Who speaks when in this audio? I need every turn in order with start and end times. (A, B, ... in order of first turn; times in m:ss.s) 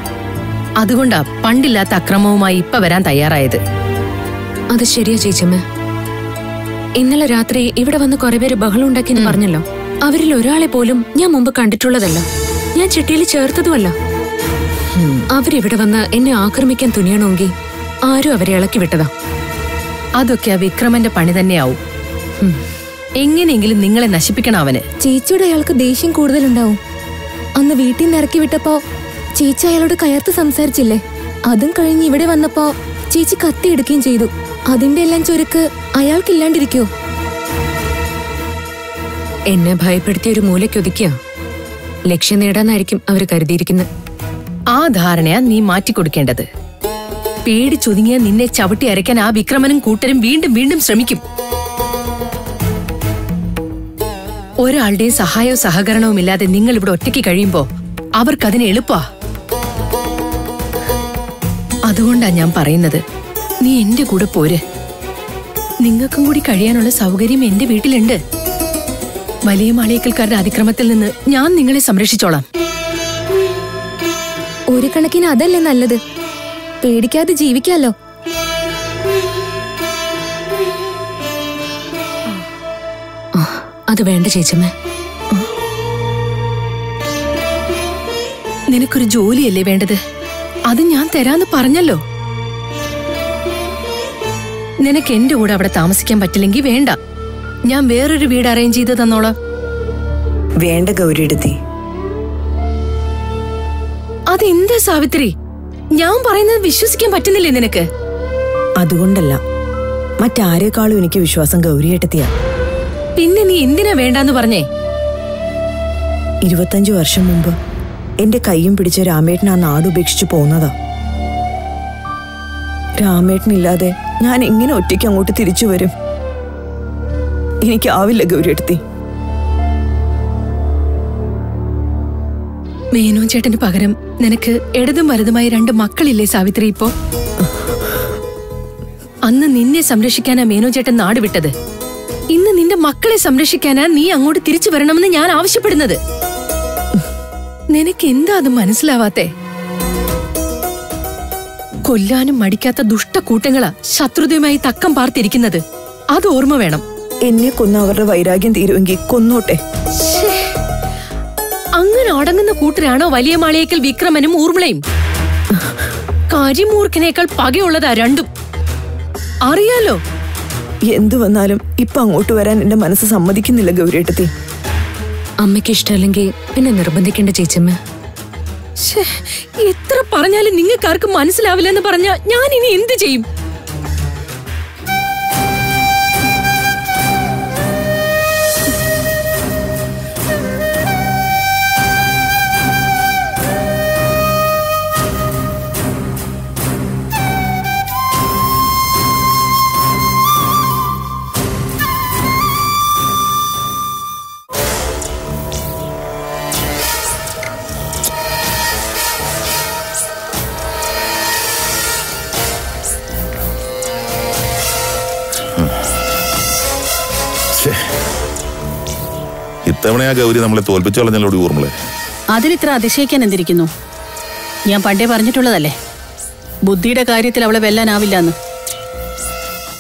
0:00.8-0:03.6 A
0:04.7-0:05.6 B
0:07.0-0:13.9 B
0:15.3-0:17.5 B
0:18.1-0:19.1 B
0:20.2-0:21.8 A
0:23.2-0:24.8 A
0:25.0-0:26.8 C
0:27.6-0:28.8 C
0:29.4-0:36.9 C
0:39.5-0:41.2 B
0:42.1-0:43.9 B
0:44.7-0:46.4 A
0:47.4-0:51.2 A
0:54.6-0:57.6 A
0:58.2-0:59.0 A
1:01.9-1:03.0 A
1:03.6-1:04.6 A
1:05.8-1:08.2 A
1:09.5-1:12.4 A
1:14.7-1:16.0 C
1:16.8-1:17.9 C
1:23.3-1:24.7 B
1:28.7-1:30.0 A
1:30.7-1:32.0 A
1:34.8-1:37.0 A
1:37.7-1:39.3 A
1:40.6-1:41.6 D
1:44.3-1:45.3 A
1:46.0-1:47.9 A
1:48.8-1:49.4 D
1:50.2-1:52.3 D
1:53.2-1:54.7 A
1:56.5-1:57.5 D
1:58.2-2:00.7 D
2:03.0-2:05.9 D
2:07.6-2:08.8 D
2:12.9-2:16.9 A
2:19.2-2:21.5 A
2:22.3-2:26.0 A
2:27.7-2:29.3 A
2:31.8-2:35.6 A
2:36.1-2:36.8 A
2:37.3-2:39.6 D
2:39.9-2:40.6 A
2:41.8-2:44.8 A
2:46.3-2:48.3 A
2:49.5-2:50.0 A
2:50.9-2:54.3 D
2:55.4-2:57.8 B
2:58.8-3:03.2 A
3:37.5-3:37.8 E
3:39.6-3:41.8 E
3:42.3-3:43.7 F
3:44.7-3:45.8 F
3:46.7-3:48.4 F